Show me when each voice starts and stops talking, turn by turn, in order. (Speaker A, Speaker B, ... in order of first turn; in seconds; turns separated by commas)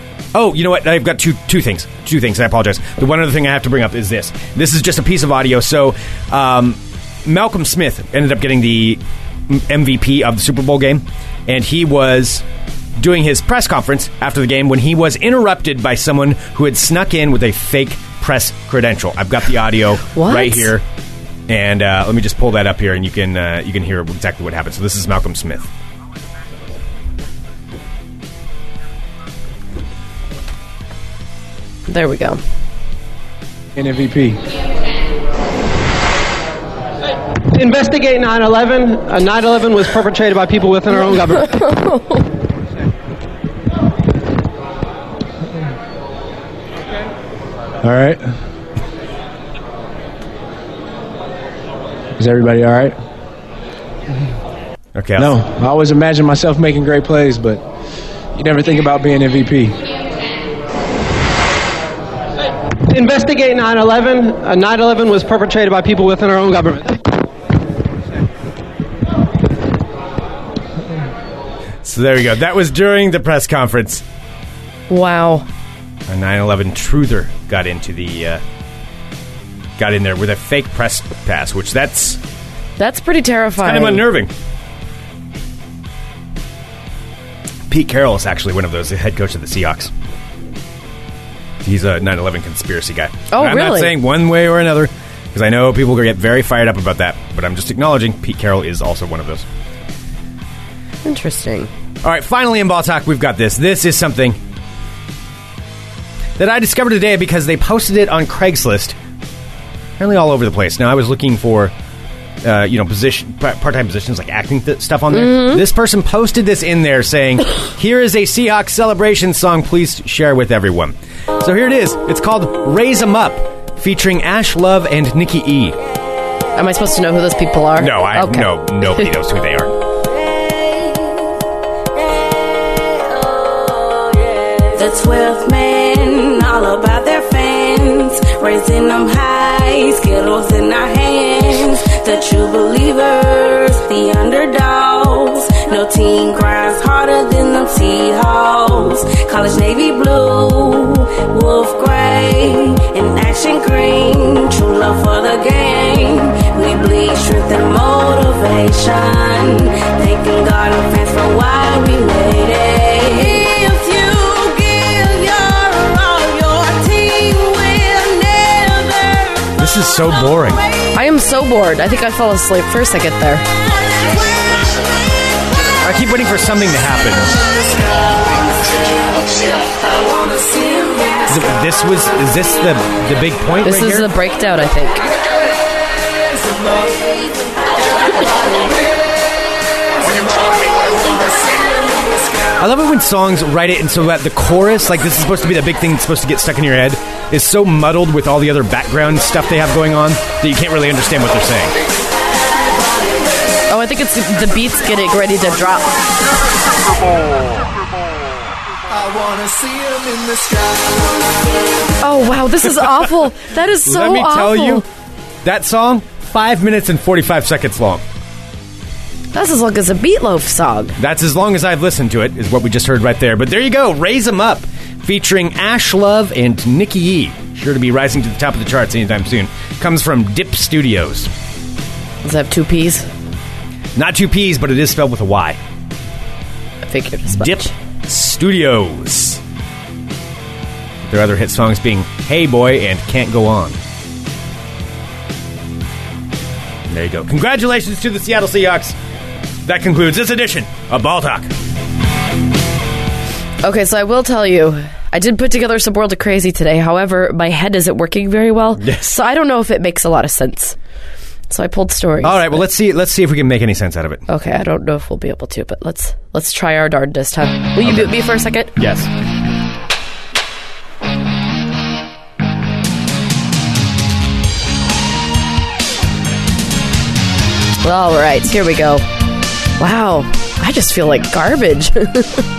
Speaker A: 0.3-12.4, Speaker A: 13.0-20.8, Speaker B: 20.1-20.7, Speaker A: 21.5-25.7, Speaker B: 31.9-32.4, Speaker C: 33.8-34.4, Speaker D: 37.5-41.6, Speaker B: 41.5-42.2, Speaker C: 47.8-48.3, Speaker C: 52.2-53.0, Speaker A: 54.9-55.3, Speaker C: 55.2-57.7, Speaker C: 58.4-59.8, Speaker D: 62.9-67.0, Speaker A: 71.8-74.0, Speaker B: 74.9-75.5, Speaker A: 76.1-78.4, Speaker A: 79.8-82.2, Speaker B: 82.8-84.0, Speaker A: 83.6-84.3, Speaker A: 87.7-89.9, Speaker A: 91.6-99.5, Speaker B: 93.3-94.0, Speaker B: 101.0-101.7, Speaker A: 102.0-104.4, Speaker A: 106.4-109.0, Speaker A: 110.0-111.7, Speaker A: 112.4-125.8, Speaker B: 115.1-115.6, Speaker B: 126.6-129.0, Speaker A: 127.8-129.7, Speaker E: 133.1-170.8, Speaker A: 169.6-170.6, Speaker B: 170.9-173.4, Speaker A: 175.8-177.4, Speaker E: 178.8-181.3, Speaker A: 181.3-184.1, Speaker B: 183.6-185.0, Speaker A: 192.6-201.7, Speaker B: 203.7-205.9, Speaker B: 212.0-214.8, Speaker A: 213.8-214.9, Speaker A: 215.4-218.0, Speaker B: 219.3-221.0, Speaker A: 221.0-231.3, Speaker B: 232.2-233.1, Speaker A: 234.0-235.6, Speaker B: 236.8-237.7, Speaker A: 237.3-239.4, Speaker A: 241.0-243.8, Speaker A: 246.9-249.0, Speaker A: 249.7-251.5, Speaker B: 253.6-260.8, Speaker A: 258.8-259.2, Speaker B: 261.5-262.6, Speaker A: 262.2-264.3, Speaker B: 264.3-268.7, Speaker A: 267.8-268.1, Speaker A: 268.8-269.1, Speaker B: 277.8-279.1, Speaker B: 279.8-282.4